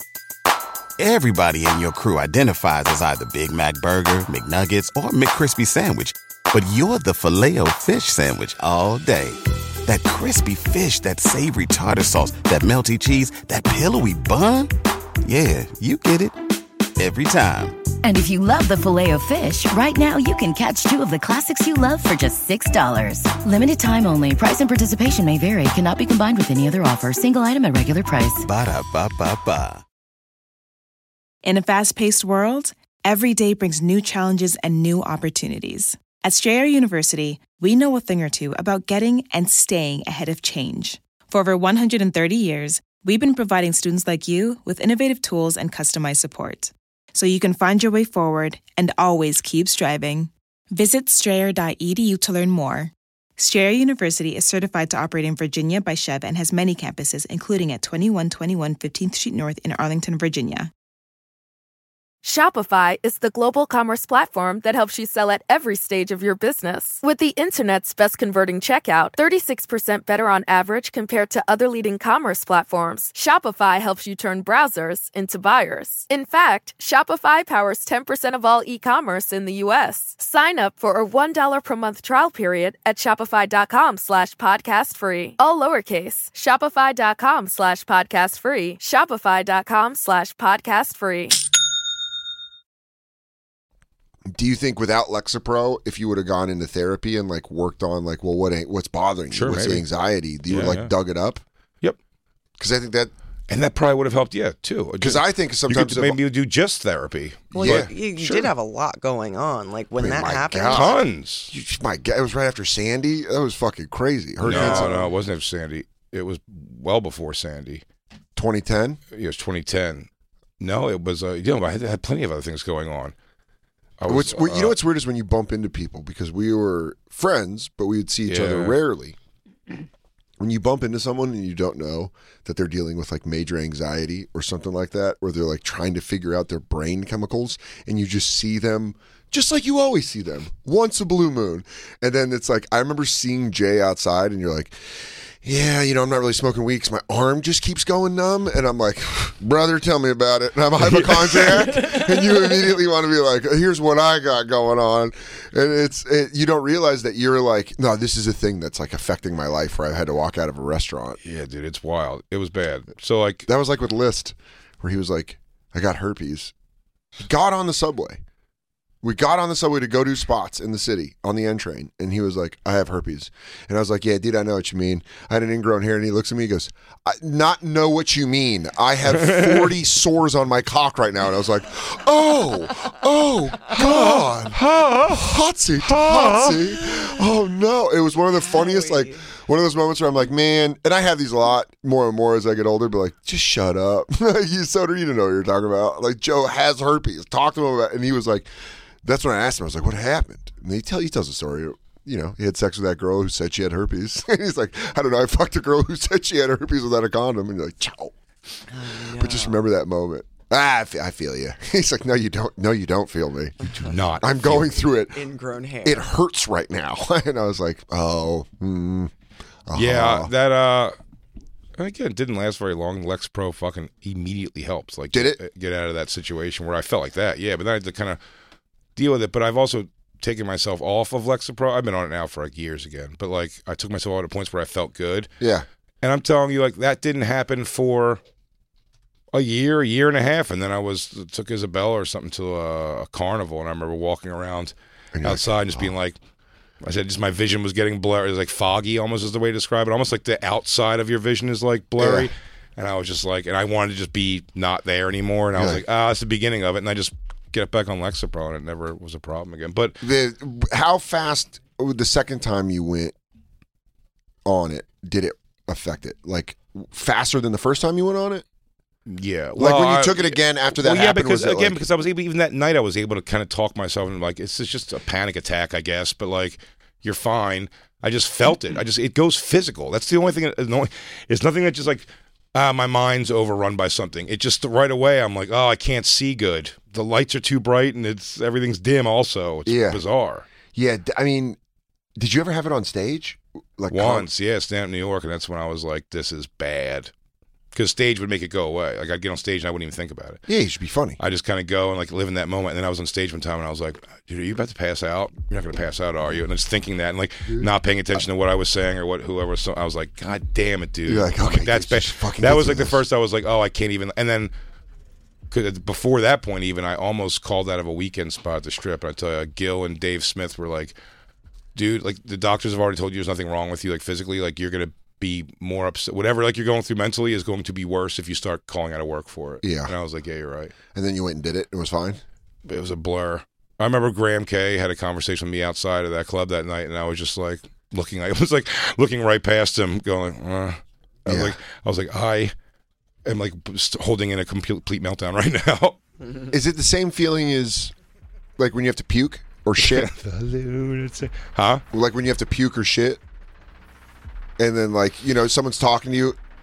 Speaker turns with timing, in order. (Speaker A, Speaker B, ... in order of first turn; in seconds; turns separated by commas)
Speaker A: 1.0-14.7, Speaker A: 15.2-16.4, Speaker A: 17.0-17.8, Speaker B: 18.0-28.4, Speaker A: 28.4-29.8, Speaker C: 31.4-60.7, Speaker D: 62.2-91.4, Speaker E: 94.3-101.4, Speaker F: 99.3-99.8, Speaker F: 100.5-100.9, Speaker E: 102.6-103.1, Speaker F: 103.5-108.5, Speaker E: 105.0-106.2, Speaker G: 107.5-110.9, Speaker E: 107.5-107.9, Speaker E: 110.0-115.1, Speaker F: 110.7-111.5, Speaker F: 114.4-117.8, Speaker G: 114.5-115.0, Speaker E: 118.3-119.0, Speaker F: 119.1-120.1, Speaker F: 120.6-123.1, Speaker F: 124.0-124.8, Speaker E: 124.0-129.2, Speaker F: 128.3-128.8, Speaker E: 130.4-144.8, Speaker E: 145.4-161.2, Speaker F: 150.8-152.1, Speaker F: 161.2-163.4, Speaker E: 163.4-166.5, Speaker E: 167.2-168.2, Speaker E: 169.0-198.5, Speaker F: 179.1-179.7, Speaker F: 183.7-186.8, Speaker G: 188.4-189.2, Speaker E: 199.0-208.1, Speaker G: 208.7-209.6, Speaker E: 209.1-213.6, Speaker G: 213.6-213.9, Speaker F: 213.7-214.7, Speaker E: 214.2-215.2, Speaker G: 215.1-216.1, Speaker E: 215.8-219.1, Speaker E: 219.7-220.3, Speaker F: 219.7-220.9, Speaker F: 221.8-228.2, Speaker E: 225.1-225.4, Speaker F: 228.9-235.3, Speaker E: 235.4-235.7, Speaker F: 236.0-238.2, Speaker F: 239.3-246.2, Speaker E: 245.1-245.9, Speaker F: 246.8-260.0, Speaker E: 252.0-252.3, Speaker E: 255.5-255.8, Speaker E: 260.0-263.1, Speaker E: 264.4-268.4, Speaker F: 269.1-290.5, Speaker E: 269.6-271.8, Speaker E: 289.6-290.0, Speaker E: 290.7-291.6, Speaker E: 292.2-294.3, Speaker F: 293.9-297.1, Speaker F: 297.7-300.4, Speaker E: 300.5-301.2, Speaker F: 301.2-314.5, Speaker E: 311.0-313.0, Speaker F: 315.5-320.9, Speaker F: 321.7-330.7, Speaker E: 329.6-329.9, Speaker E: 330.9-332.2, Speaker F: 332.6-342.5, Speaker E: 341.2-341.6, Speaker F: 343.2-346.0, Speaker E: 346.5-347.9, Speaker E: 348.6-350.1, Speaker F: 349.8-351.8, Speaker E: 351.9-353.2, Speaker E: 354.6-356.4